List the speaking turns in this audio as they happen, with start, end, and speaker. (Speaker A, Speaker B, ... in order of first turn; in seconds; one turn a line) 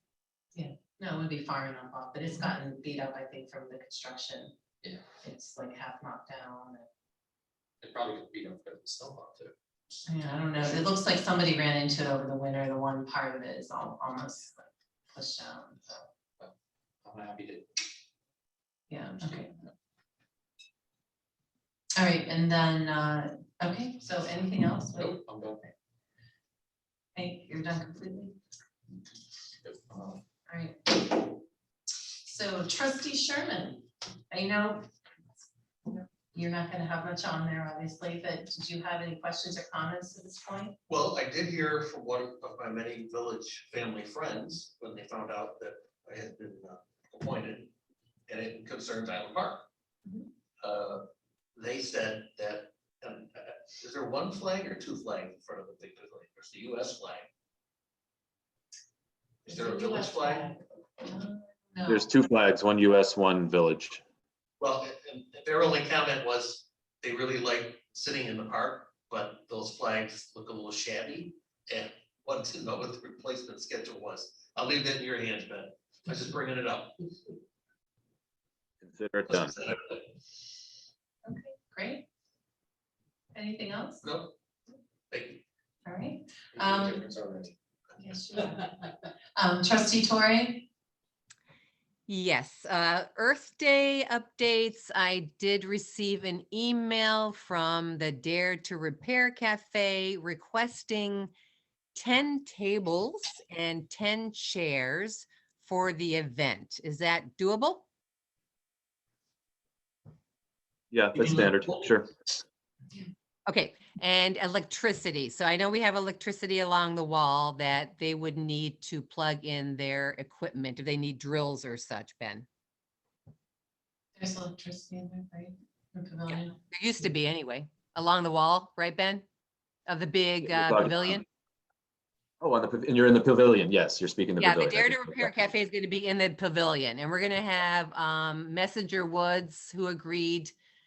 Speaker A: 0.5-4.5
Speaker A: 5.2-6.9
Speaker B: 7.8-10.8
Speaker A: 10.1-16.0
Speaker B: 17.0-17.7
Speaker A: 18.9-19.5
Speaker B: 19.2-19.6
Speaker A: 21.9-25.1
Speaker B: 24.9-25.6
Speaker A: 27.1-28.4
Speaker B: 29.6-30.2
Speaker A: 30.5-31.2
Speaker A: 32.2-34.9
Speaker A: 35.9-40.8
Speaker C: 40.9-47.7
Speaker C: 48.3-49.6
Speaker C: 50.6-51.0
Speaker C: 51.5-57.3
Speaker C: 59.4-60.5
Speaker A: 59.5-62.1
Speaker D: 61.9-64.0
Speaker C: 64.6-77.1
Speaker D: 78.8-79.5
Speaker C: 79.3-80.1
Speaker A: 81.2-82.0
Speaker A: 83.3-84.0
Speaker C: 84.0-84.3
Speaker C: 85.1-85.4
Speaker A: 85.8-87.0
Speaker B: 86.5-87.5
Speaker A: 88.0-88.7
Speaker A: 89.3-90.7
Speaker E: 92.1-101.3
Speaker E: 101.9-107.8
Speaker D: 110.9-112.1
Speaker E: 113.5-122.5
Speaker A: 124.2-126.6
Speaker E: 126.7-129.2
Speaker E: 129.9-131.2
Speaker D: 130.4-131.2
Speaker D: 132.4-135.3
Speaker E: 134.4-140.5